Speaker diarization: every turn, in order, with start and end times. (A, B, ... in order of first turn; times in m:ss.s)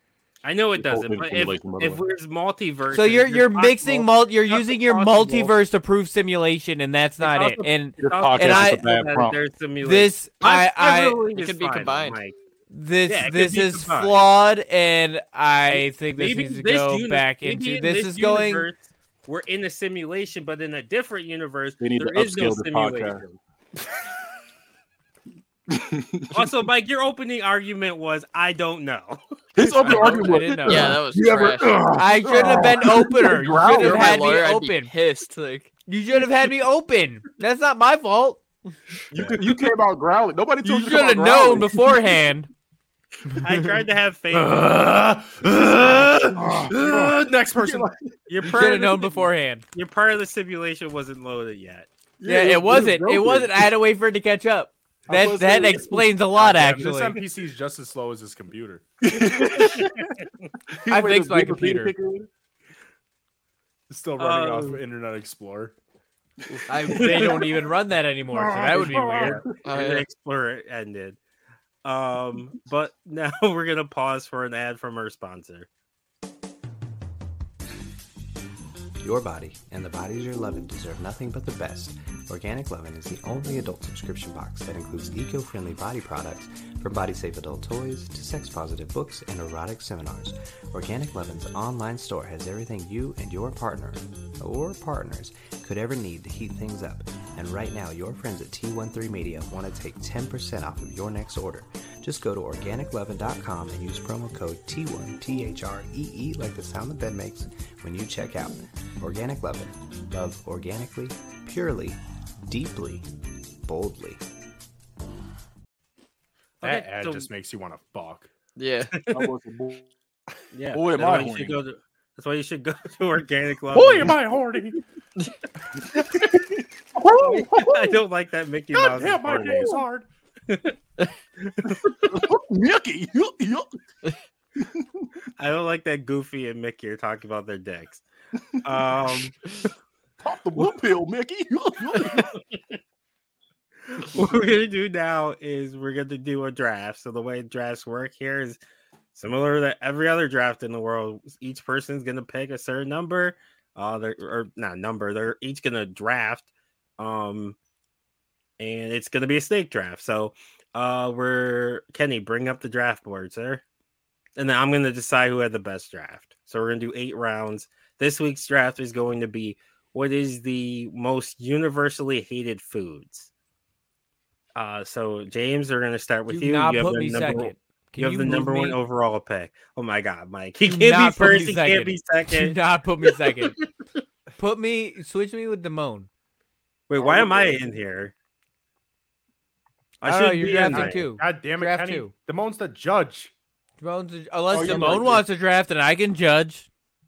0:00.4-0:05.6 A
0:00.8-0:02.0 B
0:02.9-0:08.8 C
0:07.2-0:12.4 A
0:08.0-0:09.4 B
0:09.8-0:11.2 C
0:11.3-0:12.2 D
0:12.7-0:18.7 C
0:13.1-0:14.2 A
0:15.7-0:23.4 A
0:21.8-0:23.2 B
0:25.7-0:26.4 B
0:26.3-0:29.2 A
0:29.6-0:34.3 B
0:29.6-0:31.0 C
0:29.8-0:30.2 A
0:30.7-0:31.8 D
0:32.0-0:34.9 C
0:33.7-0:35.7 D
0:35.9-0:38.4 C
0:39.1-0:39.4 A
0:39.1-0:42.2 B
0:40.6-0:42.5 C
0:43.3-0:43.7 C
0:43.4-0:44.7 A
0:44.5-0:47.9 E
0:45.5-0:48.0 B
0:48.3-0:51.9 A
0:48.4-0:49.6 C
0:52.2-0:53.7 B
0:52.2-0:57.2 C
0:55.1-0:56.1 B
0:56.4-0:58.9 E
0:59.0-1:00.1 B
0:59.2-1:00.2 A
1:00.8-1:02.3 B
1:00.9-1:01.9 C
1:03.9-1:05.8 E
1:04.2-1:04.8 A
1:06.5-1:07.7 B
1:06.7-1:09.4 C
1:08.3-1:09.6 B
1:08.8-1:11.2 A
1:09.6-1:10.1 D
1:11.8-1:15.7 A
1:19.0-1:53.1 F
1:53.6-1:54.2 F
1:56.6-1:57.3 A
1:56.6-1:58.3 E
1:58.6-1:58.9 D
1:59.0-1:59.3 A
1:59.1-1:59.9 B
2:00.5-2:04.2 A
2:00.7-2:01.6 B
2:03.7-2:04.8 E
2:06.0-2:06.4 B
2:07.0-2:07.8 B
2:07.0-2:07.9 E
2:07.2-2:09.7 A
2:08.7-2:10.1 E
2:09.3-2:09.8 B
2:10.5-2:10.8 A
2:11.6-2:13.7 B
2:14.6-2:15.1 B
2:15.4-2:18.0 A
2:18.6-2:19.4 A
2:20.2-2:22.3 B
2:22.0-2:22.8 A
2:23.9-2:28.6 A
2:29.2-2:37.6 A
2:38.6-2:43.6 A
2:44.4-2:53.3 A
2:54.6-3:02.6 A
2:56.3-2:58.8 C
3:00.6-3:03.6 C
3:03.2-3:03.6 A
3:04.4-3:06.1 C
3:06.9-3:08.1 A
3:07.0-3:07.6 B
3:10.0-3:11.0 A
3:10.0-3:12.1 C
3:10.7-3:13.3 E
3:13.8-3:16.7 C
3:14.5-3:15.2 B
3:14.6-3:15.0 A